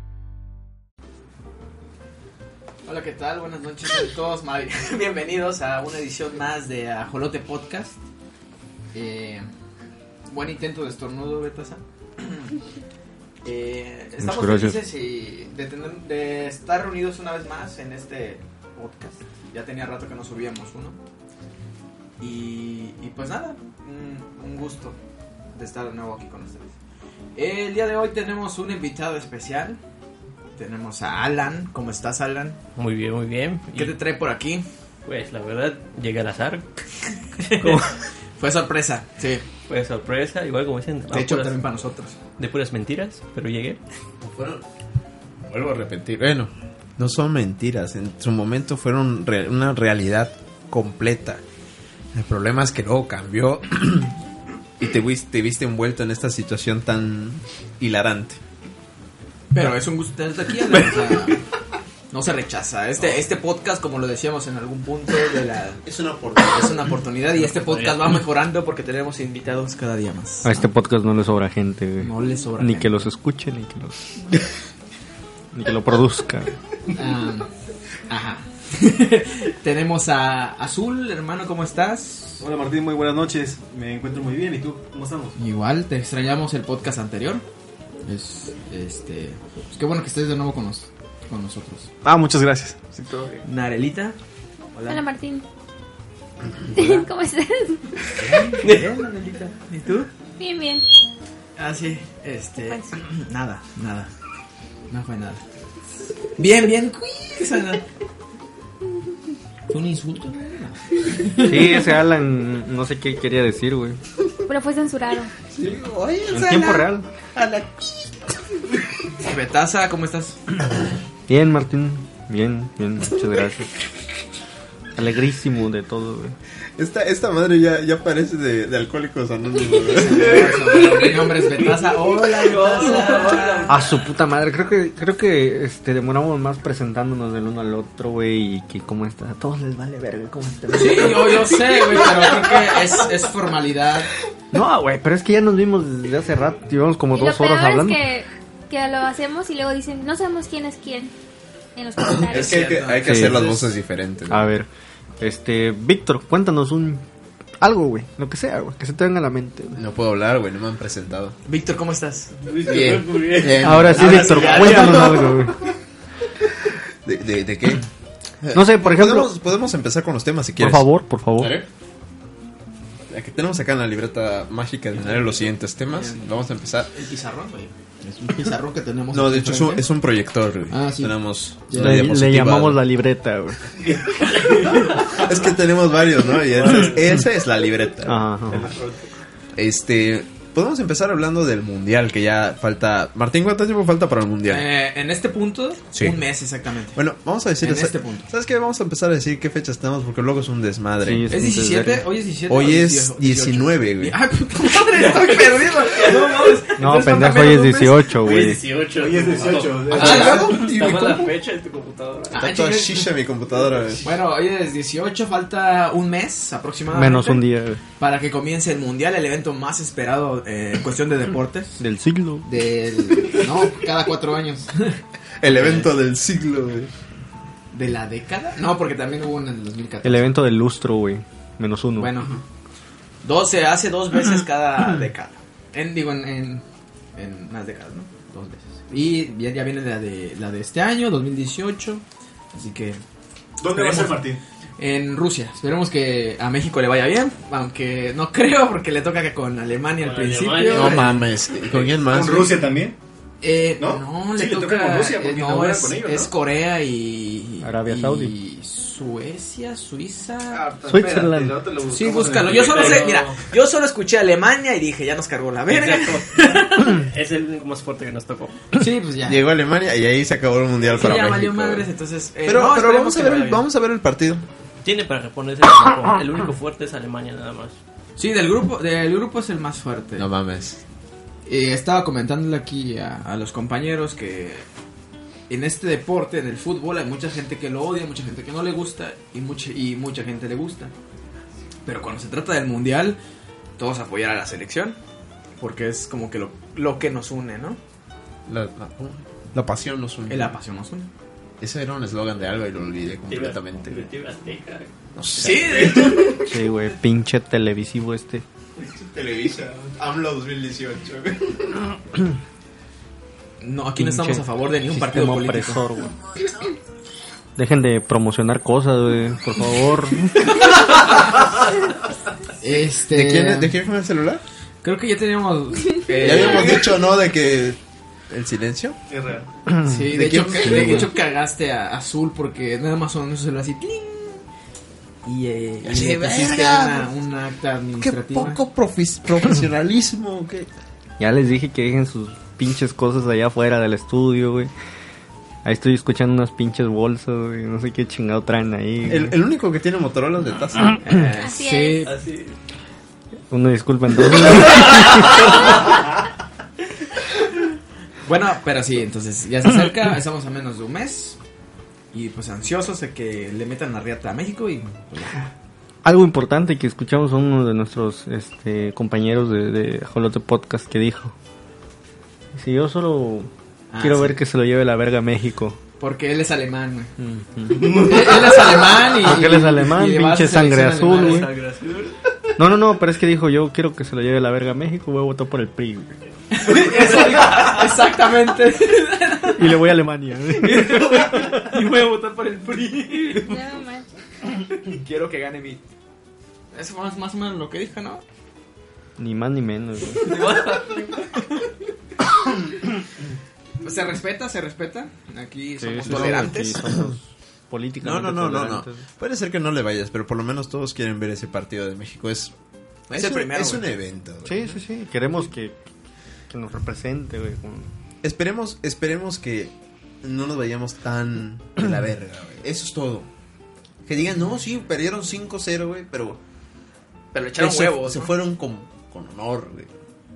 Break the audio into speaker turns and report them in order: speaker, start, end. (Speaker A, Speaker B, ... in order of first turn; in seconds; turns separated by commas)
Speaker A: 2.9-8.0, Speaker A: 8.9-9.5, Speaker A: 10.3-12.5, Speaker A: 13.4-21.0, Speaker B: 14.2-14.8, Speaker A: 22.2-25.0, Speaker A: 25.5-26.7, Speaker A: 27.4-29.8, Speaker A: 30.6-32.6, Speaker C: 32.8-34.0, Speaker A: 33.8-34.6, Speaker C: 35.0-36.8, Speaker C: 37.4-38.0, Speaker A: 37.4-39.5, Speaker C: 39.7-41.6, Speaker A: 41.1-42.2, Speaker C: 42.4-43.8, Speaker D: 44.2-44.6, Speaker D: 45.5-51.4, Speaker D: 52.1-54.2, Speaker D: 54.8-58.4, Speaker A: 59.5-61.4, Speaker A: 62.1-65.8, Speaker D: 65.8-66.9, Speaker A: 66.5-70.5, Speaker C: 67.4-68.1, Speaker B: 70.4-74.4, Speaker A: 72.0-73.1, Speaker B: 75.5-76.5, Speaker A: 76.9-77.5, Speaker A: 78.1-82.5, Speaker E: 82.4-85.3, Speaker A: 85.3-87.4, Speaker A: 88.0-91.9, Speaker E: 92.0-92.9, Speaker C: 92.9-93.4, Speaker A: 93.4-94.2, Speaker A: 94.7-95.0, Speaker F: 94.9-95.4, Speaker F: 96.7-98.0, Speaker A: 98.1-100.1, Speaker F: 100.4-100.8, Speaker A: 101.6-104.1, Speaker A: 104.9-105.4, Speaker A: 106.4-107.8, Speaker A: 109.7-111.8, Speaker B: 111.4-114.0, Speaker F: 114.5-115.3, Speaker D: 115.5-118.1, Speaker B: 116.3-117.1, Speaker A: 119.2-120.4, Speaker B: 121.3-123.7, Speaker B: 125.0-126.3, Speaker D: 126.8-130.6, Speaker A: 129.8-133.8, Speaker C: 130.2-134.1, Speaker B: 133.7-141.8, Speaker A: 140.7-144.1, Speaker B: 144.5-148.0, Speaker F: 147.1-151.1, Speaker F: 151.8-152.7, Speaker D: 152.0-154.5, Speaker A: 152.3-153.6, Speaker B: 153.0-153.6, Speaker B: 154.3-154.7, Speaker B: 155.2-157.0, Speaker B: 157.6-159.8, Speaker D: 159.8-161.4, Speaker A: 161.4-162.4, Speaker C: 162.4-164.3, Speaker D: 162.6-165.3, Speaker B: 163.6-165.7, Speaker A: 163.9-165.2, Speaker D: 167.0-167.8, Speaker D: 168.4-171.7, Speaker B: 168.5-169.4, Speaker B: 170.6-171.6, Speaker D: 173.1-176.9, Speaker A: 175.8-176.3, Speaker A: 176.9-179.8, Speaker D: 179.1-182.8, Speaker A: 180.7-182.0, Speaker B: 181.7-184.0, Speaker C: 184.2-185.2, Speaker A: 184.8-185.2, Speaker D: 185.0-188.3, Speaker C: 186.6-186.9, Speaker B: 188.0-188.7, Speaker E: 188.6-188.8, Speaker C: 188.6-188.9, Speaker D: 189.6-194.7, Speaker A: 194.5-197.0, Speaker D: 195.9-196.2, Speaker D: 196.9-201.3, Speaker A: 197.6-198.3, Speaker B: 201.0-202.1, Speaker A: 201.3-208.1, Speaker D: 202.5-204.2, Speaker C: 204.8-206.6, Speaker B: 206.8-208.6, Speaker C: 208.1-212.5, Speaker E: 208.9-210.6, Speaker D: 209.6-211.3, Speaker A: 209.9-210.8, Speaker A: 212.3-213.1, Speaker D: 212.3-214.1, Speaker A: 214.0-217.4, Speaker B: 216.9-217.8, Speaker A: 218.0-221.8, Speaker B: 221.8-222.5, Speaker A: 222.4-225.0, Speaker D: 225.4-226.9, Speaker A: 225.5-225.9, Speaker A: 227.7-230.4, Speaker B: 230.0-232.2, Speaker A: 232.0-232.3, Speaker A: 233.2-236.6, Speaker A: 237.2-242.0, Speaker A: 242.5-243.0, Speaker E: 243.6-244.4, Speaker A: 243.6-251.2, Speaker C: 250.0-251.2, Speaker D: 250.7-252.6, Speaker E: 251.9-252.9, Speaker A: 253.4-260.7, Speaker E: 253.8-256.3, Speaker B: 257.6-258.3, Speaker E: 260.5-263.2, Speaker B: 260.8-261.7, Speaker A: 261.9-267.0, Speaker C: 262.6-263.4, Speaker C: 265.7-268.6, Speaker A: 268.7-269.4, Speaker D: 269.2-271.9, Speaker A: 270.8-273.6, Speaker D: 272.4-274.4, Speaker C: 274.8-277.8, Speaker A: 278.2-280.3, Speaker D: 280.2-280.8, Speaker A: 281.4-284.6, Speaker A: 285.5-290.9, Speaker A: 291.9-293.2, Speaker A: 293.8-295.0, Speaker A: 295.6-297.8, Speaker D: 298.5-300.6, Speaker A: 300.3-301.1, Speaker D: 301.6-304.1, Speaker C: 303.3-304.9, Speaker D: 305.1-306.4, Speaker A: 305.3-306.4, Speaker B: 306.4-308.4, Speaker D: 308.9-312.0, Speaker A: 313.6-315.8, Speaker B: 313.9-316.2, Speaker B: 317.6-320.5, Speaker A: 322.6-323.7, Speaker D: 323.0-324.4, Speaker A: 324.8-326.8, Speaker D: 326.1-329.0, Speaker E: 329.1-329.5, Speaker A: 329.8-334.4, Speaker D: 330.0-331.1, Speaker B: 330.6-331.0, Speaker A: 335.2-338.6, Speaker D: 335.8-337.1, Speaker D: 338.0-340.7, Speaker B: 341.2-344.7, Speaker B: 345.6-349.4, Speaker D: 349.1-351.0, Speaker A: 351.0-352.1, Speaker F: 351.3-352.1, Speaker C: 352.0-352.6, Speaker B: 353.5-355.9, Speaker A: 358.2-361.4, Speaker A: 362.1-365.5, Speaker B: 366.0-371.3, Speaker B: 372.5-375.8, Speaker A: 373.9-374.4, Speaker A: 376.0-377.1, Speaker B: 377.2-378.5, Speaker A: 377.8-381.5, Speaker B: 379.1-381.5, Speaker C: 381.1-382.1, Speaker B: 382.6-386.2, Speaker A: 386.5-389.8, Speaker C: 387.0-387.6, Speaker B: 389.5-391.4, Speaker A: 390.6-393.6, Speaker F: 393.3-394.1, Speaker A: 394.5-395.8, Speaker A: 396.7-398.2, Speaker B: 399.2-400.4, Speaker C: 400.2-401.2, Speaker A: 400.4-400.7, Speaker A: 403.8-406.8, Speaker B: 405.8-409.0, Speaker D: 406.1-407.1, Speaker D: 408.0-412.5, Speaker A: 413.1-413.9, Speaker D: 413.1-414.8, Speaker B: 414.4-415.8, Speaker B: 416.5-417.9, Speaker D: 418.2-423.3, Speaker D: 424.1-426.4, Speaker A: 427.3-428.4, Speaker D: 427.5-429.9